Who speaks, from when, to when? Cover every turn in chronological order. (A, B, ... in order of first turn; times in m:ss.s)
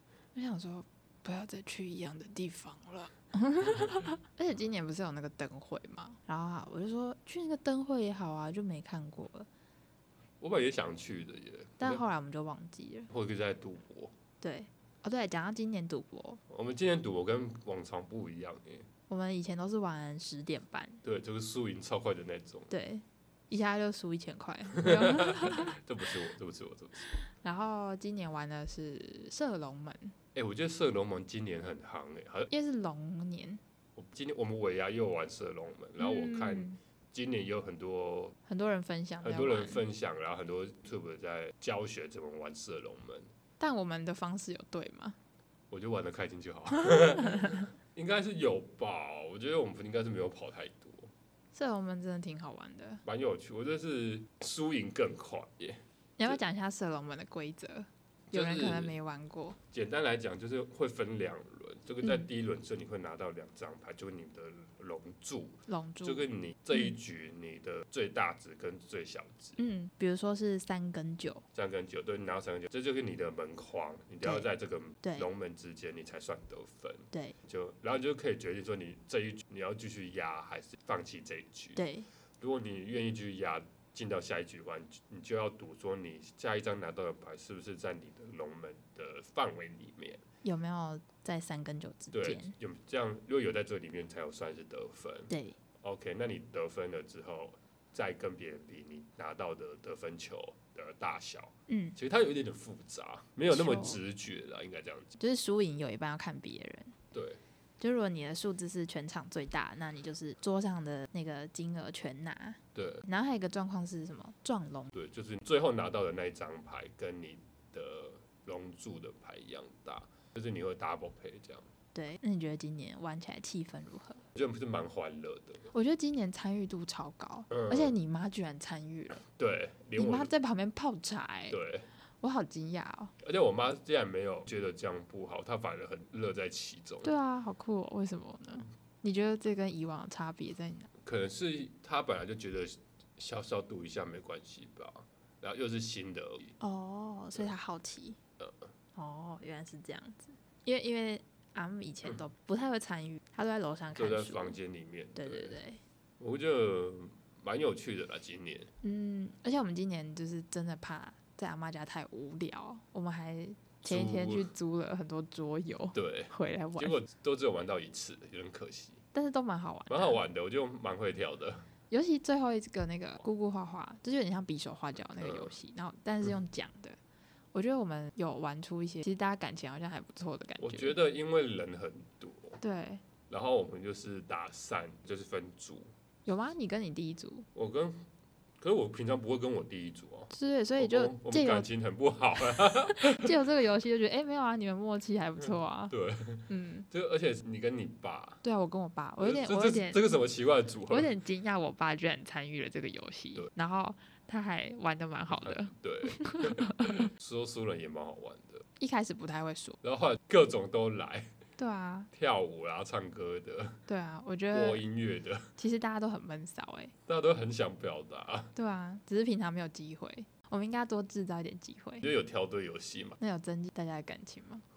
0:00.4-0:09.5 A
0:10.4-0:12.0 B
0:11.8-0:13.1 A
0:13.1-0:14.1 B
0:14.4-0:16.4 A
0:16.5-0:18.9 B
0:19.1-0:21.0 A
0:21.0-0:22.7 B
0:22.7-0:25.7 A
0:24.7-0:27.1 B
0:27.2-0:30.1 A
0:30.4-0:32.5 B
0:32.5-0:33.6 A
0:34.0-0:38.4 B
0:36.0-0:36.8 A
0:38.5-0:39.8 A
0:39.2-0:43.3 B
0:43.6-0:45.2 A
0:45.7-0:51.1 B
0:46.8-0:47.6 A
0:51.5-0:53.0 A
0:53.0-0:56.4 B
0:56.2-0:59.6 A
0:58.3-0:59.0 B
0:59.7-1:09.6 B
1:05.7-1:06.9 A
1:09.6-1:11.4 A
1:11.5-1:21.8 B
1:15.0-1:15.3 A
1:21.8-1:22.1 A
1:22.4-1:30.2 B
1:30.4-1:32.5 A
1:32.1-1:45.2 B
1:35.3-1:35.6 A
1:41.7-1:42.0 A
1:43.5-1:44.0 A
1:45.2-1:47.0 A
1:47.1-1:47.4 B
1:47.8-1:54.9 A
1:52.8-1:53.0 B
1:54.9-2:01.7 B
2:01.9-2:04.2 A
2:04.4-2:05.7 B
2:05.7-2:09.2 A
2:07.5-2:08.0 B
2:09.3-2:10.3 B
2:10.0-2:11.6 A
2:11.5-2:11.9 B
2:12.2-2:13.1 A
2:13.2-2:17.1 B
2:17.0-2:20.9 A
2:21.0-2:26.6 B
2:26.6-2:28.2 A
2:29.0-2:34.6 A
2:34.0-2:35.6 B
2:35.2-2:35.8 A
2:36.2-2:38.7 B
2:38.8-2:47.0 A
2:43.8-2:44.5 B
2:45.9-2:49.0 B
2:49.1-2:50.2 A
2:49.9-2:51.7 B
2:51.9-2:57.0 A
2:55.2-2:55.5 B
2:57.5-3:01.0 A
3:00.6-3:02.6 B
3:02.6-3:03.0 A
3:03.3-3:05.9 B
3:06.3-3:07.5 A
3:07.6-3:08.0 B
3:08.6-3:13.3 B
3:10.3-3:11.7 A
3:12.6-3:15.9 A
3:15.9-3:18.4 B
3:16.5-3:16.9 A
3:18.4-3:20.0 A
3:19.2-3:21.1 B
3:20.9-3:27.1 A
3:25.3-3:28.6 B
3:28.8-3:29.8 A
3:29.8-3:31.3 B
3:31.6-3:32.1 A
3:32.1-3:33.8 B
3:33.9-3:34.8 A
3:34.5-3:35.5 B
3:35.6-3:36.9 A
3:37.1-3:38.5 B
3:38.6-3:42.1 A
3:42.0-3:43.2 B
3:43.2-3:44.6 A